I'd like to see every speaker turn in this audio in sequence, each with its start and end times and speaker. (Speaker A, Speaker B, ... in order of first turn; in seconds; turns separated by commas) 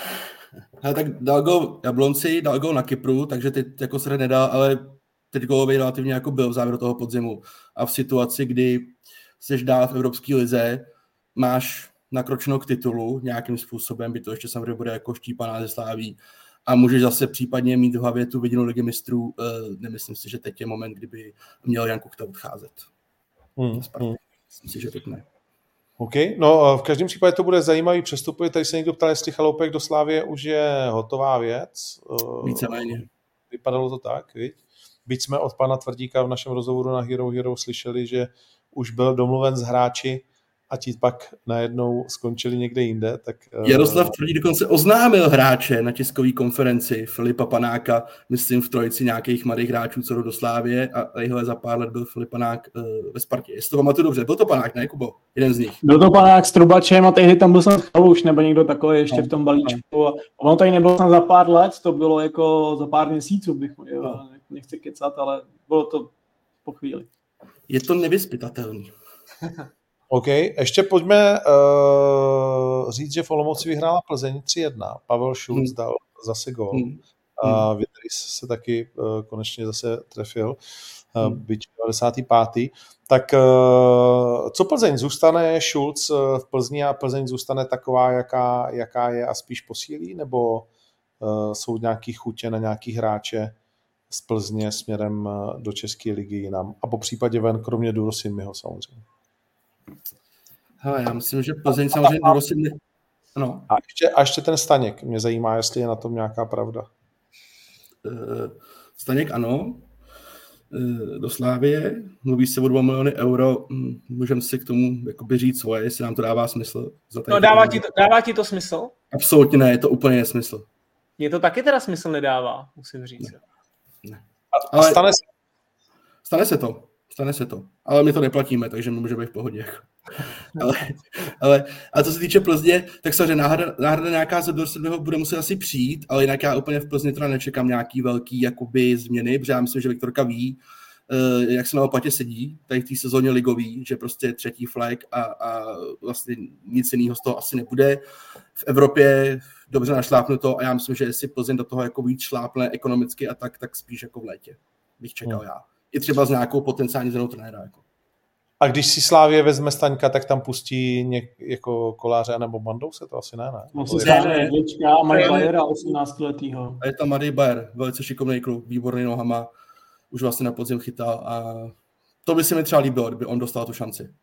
Speaker A: 0.8-22.9, Speaker B: 23.6-24.2, Speaker A: 23.7-25.2, Speaker B: 26.0-32.7, Speaker A: 32.4-33.1, Speaker B: 33.5-44.1, Speaker A: 43.6-55.8, Speaker C: 55.8-66.1, Speaker A: 59.1-59.8, Speaker C: 66.6-67.1, Speaker A: 67.7-68.9, Speaker B: 70.1-76.8, Speaker A: 76.7-77.7, Speaker B: 77.4-80.6, Speaker B: 81.1-90.7, Speaker B: 91.2-93.5, Speaker B: 94.1-99.0, Speaker A: 100.8-102.8, Speaker D: 102.1-102.3, Speaker A: 103.3-103.7, Speaker B: 103.7-106.9, Speaker A: 108.0-109.9, Speaker A: 110.7-117.9, Speaker D: 117.3-118.9, Speaker A: 119.1-120.7, Speaker D: 121.2-123.4, Speaker A: 124.0-125.0, Speaker B: 124.5-125.2, Speaker A: 126.2-148.0, Speaker A: 148.6-157.8, Speaker B: 158.6-164.2, Speaker C: 163.7-166.8, Speaker A: 163.9-164.6, Speaker A: 165.1-166.0, Speaker D: 165.1-165.4, Speaker A: 166.8-169.5, Speaker A: 170.1-174.1